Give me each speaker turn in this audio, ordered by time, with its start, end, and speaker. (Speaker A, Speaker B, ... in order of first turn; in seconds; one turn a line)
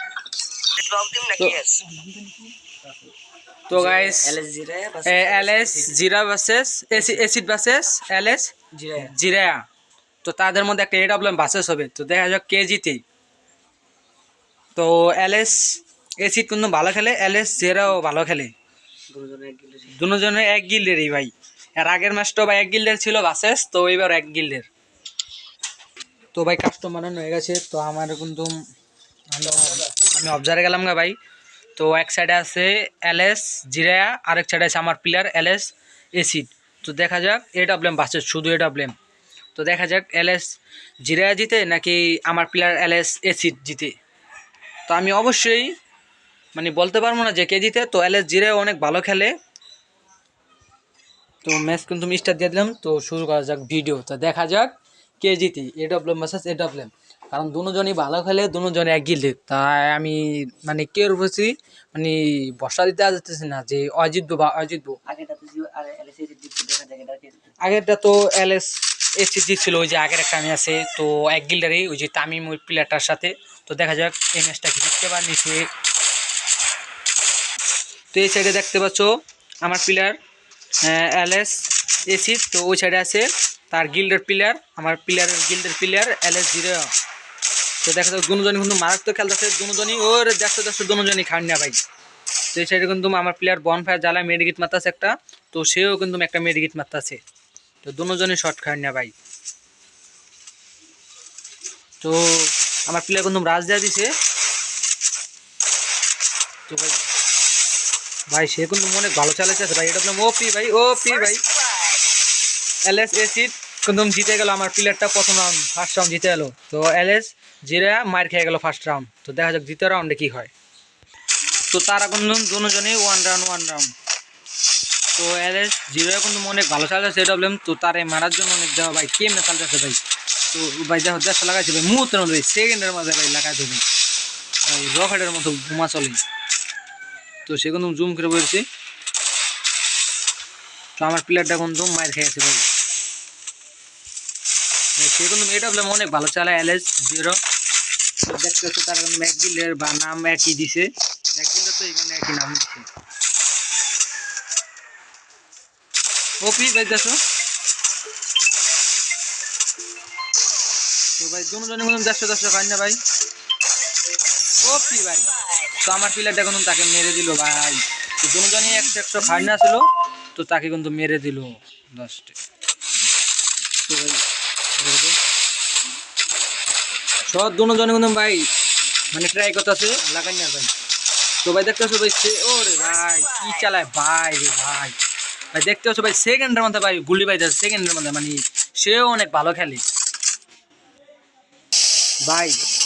Speaker A: 0.8-1.8
Speaker B: 1.4-2.5
Speaker A: 2.6-3.1
Speaker B: 3.7-4.4
Speaker A: 3.7-6.0
Speaker B: 5.0-9.6
Speaker A: 7.0-7.3
Speaker A: 8.7-9.1
Speaker B: 10.2-13.0
Speaker B: 14.8-18.5
Speaker A: 19.1-19.9
Speaker B: 19.9-24.7
Speaker B: 26.3-28.6
Speaker B: 29.3-31.2
Speaker A: 29.5-29.9
Speaker B: 31.8-39.0
Speaker B: 39.5-44.0
Speaker B: 44.9-45.7
Speaker B: 46.5-49.3
Speaker B: 51.4-65.0
Speaker A: 65.0-67.5
Speaker B: 67.6-75.7
Speaker B: 78.1-80.2
Speaker B: 80.8-86.9
Speaker B: 87.8-91.8
Speaker B: 92.5-97.2
Speaker B: 97.8-99.1
Speaker B: 102.0-104.1
Speaker B: 106.7-107.1
Speaker B: 108.3-111.4
Speaker B: 112.8-120.5
Speaker B: 121.7-123.9
Speaker B: 125.1-130.0
Speaker B: 130.5-133.8
Speaker B: 134.6-136.2
Speaker B: 137.5-138.7
Speaker B: 141.0-142.7
Speaker B: 145.0-147.4
Speaker B: 148.2-152.9
Speaker B: 156.4-157.2
Speaker B: 161.2-163.0
Speaker B: 164.6-172.4
Speaker B: 173.9-174.2
Speaker B: 174.8-175.2
Speaker B: 177.3-178.5
Speaker B: 179.1-180.7
Speaker B: 181.4-185.0
Speaker B: 185.5-189.8
Speaker B: 192.2-192.6